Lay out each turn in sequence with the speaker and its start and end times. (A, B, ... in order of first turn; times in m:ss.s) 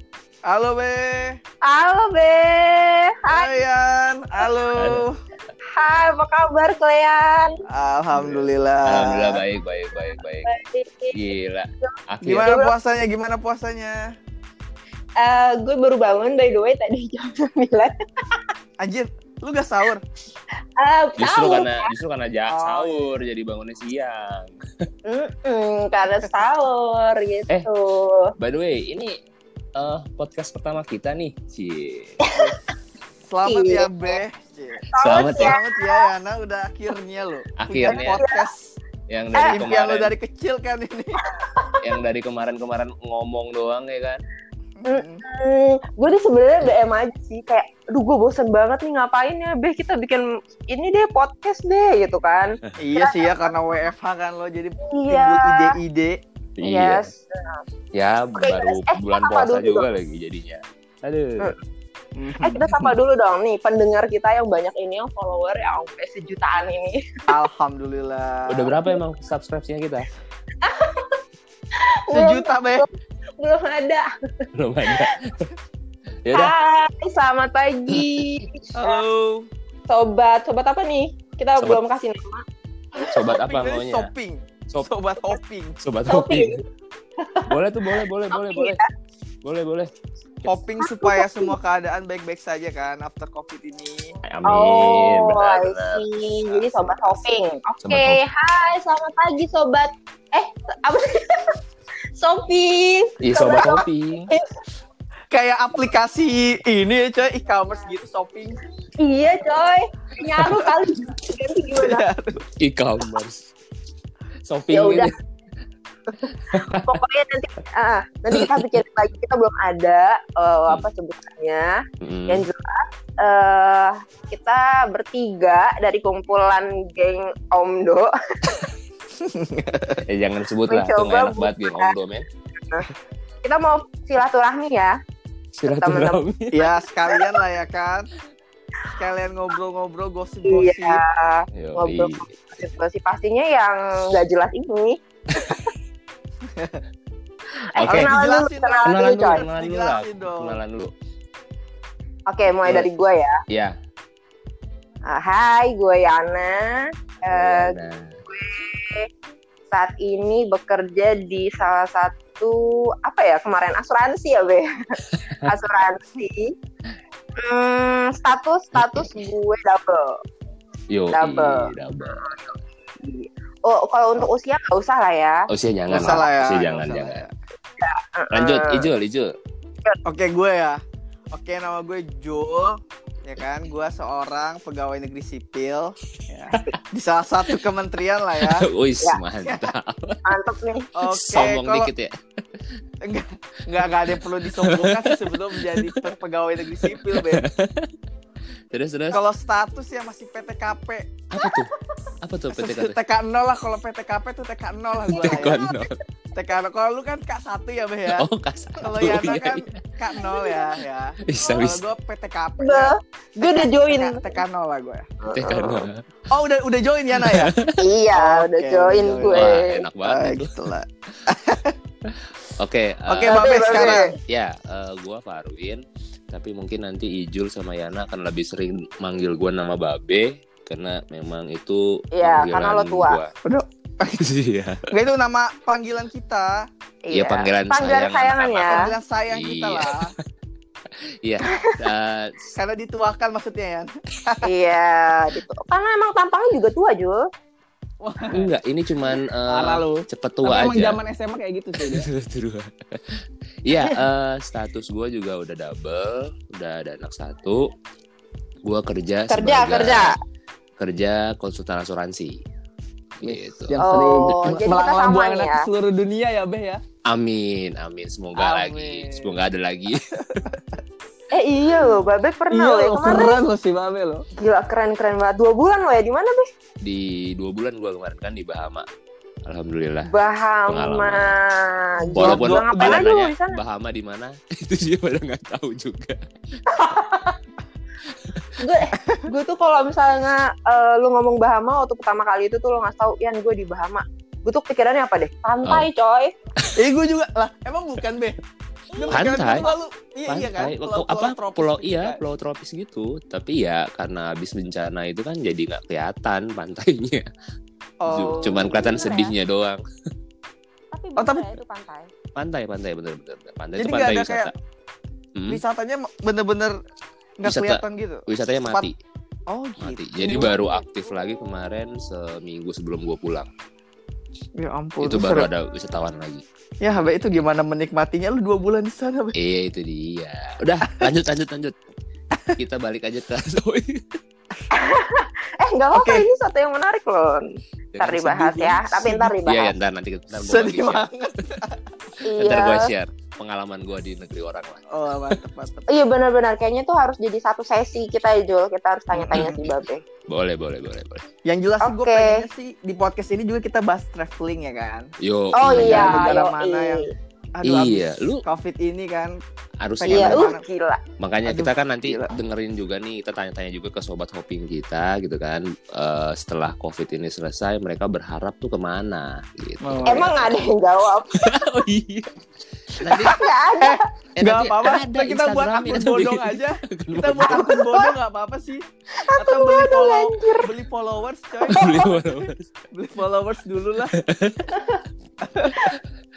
0:00.4-0:01.4 A
0:01.6-0:03.5 B
0:03.3-0:05.2 A
0:04.8-0:05.0 C
0:05.7-0:07.5 B
0:07.7-0:09.4 A
0:08.1-0:10.5 C
0:10.4-0:11.2 B
0:11.1-0:12.5 C
0:11.8-0:12.7 B
0:12.2-0:14.0 A
0:15.2-0:18.4 B
0:18.8-0:20.0 A
0:20.8-0:21.9 B
0:21.2-0:24.5 C
0:22.4-0:23.1 A
0:25.0-0:28.3 B
0:28.4-0:29.1 C
0:29.8-0:32.2 C
0:33.3-0:38.7 A
0:33.4-0:34.1 B
0:34.9-0:36.1 B
0:35.0-0:35.6 C
0:37.6-0:38.2 C
0:37.9-0:38.5 B
0:39.1-0:40.1 C
0:39.4-0:39.6 B
0:39.5-0:41.2 A
0:41.8-0:44.2 C
0:44.8-0:45.2 A
0:44.8-0:53.5 B
0:52.8-0:56.2 A
0:54.9-0:55.7 B
0:56.6-0:57.1 C
0:56.6-0:57.6 B
0:57.9-1:01.5 C
0:58.3-0:59.9 B
1:02.2-1:02.9 A
1:02.4-1:07.0 B
1:07.3-1:08.8 A
1:08.5-1:10.1 C
1:10.6-1:11.2 B
1:11.8-1:14.0 B
1:12.1-1:12.8 A
1:14.5-1:15.5 C
1:16.2-1:16.5 C
1:16.3-1:19.0 B
1:17.9-1:18.2 C
1:18.7-1:19.5 A
1:19.9-1:22.4 B
1:23.0-1:23.2 B
1:23.1-1:24.1 C
1:23.4-1:25.8 A
1:25.8-1:26.6 C
1:26.1-1:26.6 B
1:27.2-1:28.8 B
1:27.4-1:28.8 C
1:29.4-1:29.9 C
1:30.4-1:34.2 A
1:30.8-1:31.5 B
1:34.2-1:37.2 C
1:34.4-1:41.5 B
1:37.8-1:38.2 C
1:42.1-1:44.4 B
1:43.2-1:44.3 C
1:45.3-1:48.6 A
1:49.0-1:52.0 B
1:50.4-1:50.7 A
1:51.8-1:52.4 A
1:52.5-1:53.4 C
1:54.4-1:55.1 C
1:54.7-1:55.1 B
1:56.5-1:56.9 C
1:56.6-2:08.7 B
2:02.0-2:02.5 C
2:09.2-2:10.0 A
2:10.0-2:12.2 C
2:10.7-2:11.9 B
2:13.4-2:15.0 B
2:15.6-2:16.6 C
2:15.6-2:16.2 B
2:16.5-2:18.1 A
2:18.9-2:21.0 A
2:20.4-2:25.0 B
2:21.6-2:22.2 C
2:27.7-2:29.4 B
2:27.7-2:28.1 C
2:27.8-2:30.6 A
2:28.8-2:30.9 C
2:32.3-2:33.4 B
2:33.5-2:33.7 C
2:35.0-2:39.1 B
2:37.2-2:38.1 C
2:39.7-2:46.5 B
2:47.4-2:50.2 B
2:48.8-2:49.2 C
2:50.9-2:52.4 C
2:51.1-2:51.7 B
2:53.0-2:55.5 B
2:55.5-2:57.2 C
2:55.9-2:57.3 A
2:57.8-2:58.9 B
2:58.3-2:59.3 C
3:00.0-3:00.8 A
3:01.3-3:08.6 A
3:08.4-3:10.2 C
3:09.4-3:09.7 A
3:10.2-3:10.9 B
3:11.0-3:11.9 A
3:11.1-3:12.1 C
3:13.0-3:17.4 A
3:14.6-3:16.1 C
3:16.8-3:17.9 C
3:18.7-3:19.2 C
3:19.1-3:21.3 A
3:21.3-3:21.7 C
3:22.2-3:23.0 C
3:22.5-3:25.6 A
3:25.1-3:26.0 C
3:25.1-3:25.8 B
3:26.3-3:28.3 A
3:28.1-3:29.8 C
3:28.8-3:35.1 A
3:30.2-3:30.7 B
3:31.2-3:31.8 C
3:32.6-3:34.4 B
3:35.2-3:35.8 B
3:35.3-3:36.0 C
3:36.3-3:37.5 A
3:37.2-3:37.7 C
3:37.8-3:39.8 B
3:38.1-3:39.5 A
3:39.3-3:40.7 C
3:40.0-3:41.7 A
3:42.1-3:53.3 C
3:43.0-3:44.1 A
3:43.3-3:44.1 B
3:52.1-3:53.2 B
3:53.4-3:54.2 A
3:54.2-3:54.8 C
3:54.9-3:56.6 A
3:57.0-3:58.9 B
3:57.1-4:00.1 C
3:58.6-4:00.1 A
4:01.2-4:02.5 C
4:01.5-4:01.7 B
4:02.5-4:04.5 A
4:04.4-4:07.3 B
4:08.0-4:08.5 A
4:08.3-4:11.0 C
4:09.5-4:12.1 A
4:11.8-4:13.0 C
4:13.6-4:17.6 C
4:18.6-4:20.1 C
4:19.3-4:20.1 B
4:20.8-4:22.4 C
4:23.2-4:23.8 C
4:23.2-4:26.8 A
4:23.8-4:25.6 B
4:27.1-4:30.0 C
4:28.3-4:29.4 A
4:30.3-4:30.6 A
4:31.3-4:33.4 B
4:32.5-4:34.2 A
4:34.4-4:36.5 B
4:36.8-4:38.9 C
4:39.4-4:40.1 C
4:40.0-4:43.6 B
4:40.7-4:41.4 C
4:42.0-4:43.0 A
4:42.1-4:46.2 C
4:46.7-4:47.3 B
4:48.6-4:56.3 B
4:55.6-4:55.9 C
4:56.7-4:58.4 A
4:58.9-4:59.8 B
4:58.9-5:02.2 A
4:59.1-4:59.7 C
5:00.3-5:07.3 C
5:08.0-5:09.0 A
5:08.1-5:09.8 C
5:08.4-5:09.4 B
5:10.9-5:12.1 B
5:11.2-5:11.5 A
5:12.4-5:14.5 C
5:13.8-5:14.5 A
5:15.4-5:15.6 C
5:15.5-5:16.8 A
5:17.4-5:18.9 A
5:17.4-5:19.0 C
5:19.5-5:20.6 A
5:19.8-5:23.5 C
5:20.2-5:21.5 B
5:24.6-5:25.5 A
5:25.0-5:26.4 C
5:26.8-5:29.3 A
5:29.4-5:31.7 C
5:32.6-5:34.0 C
5:34.7-5:37.5 B
5:35.9-5:36.2 A
5:37.9-5:41.1 C
5:38.0-5:39.8 B
5:39.0-5:39.3 A
5:40.4-5:41.8 A
5:42.2-5:42.9 B
5:42.4-5:45.4 C
5:44.9-5:45.9 A
5:45.9-5:50.0 B
5:49.1-5:49.6 A
5:49.3-5:49.7 C
5:50.3-5:51.2 C
5:51.4-5:55.1 A
5:51.8-5:52.4 B
5:55.2-5:56.4 C
5:55.5-5:57.1 B
5:55.8-5:59.4 A
5:57.6-5:58.4 C
5:59.8-6:00.4 C
6:00.0-6:00.6 A
6:00.1-6:01.0 B
6:01.2-6:10.4 C
6:01.4-6:02.3 A
6:09.8-6:10.5 A
6:10.0-6:11.4 B
6:11.3-6:12.3 C
6:12.9-6:13.4 C
6:13.0-6:18.8 A
6:13.2-6:14.0 B
6:14.4-6:17.8 C
6:17.4-6:18.1 B
6:19.2-6:20.7 B
6:19.4-6:22.2 A
6:21.7-6:22.6 C
6:21.7-6:22.0 B
6:22.9-6:24.1 A
6:24.1-6:24.7 C
6:24.7-6:25.0 B
6:25.4-6:25.9 A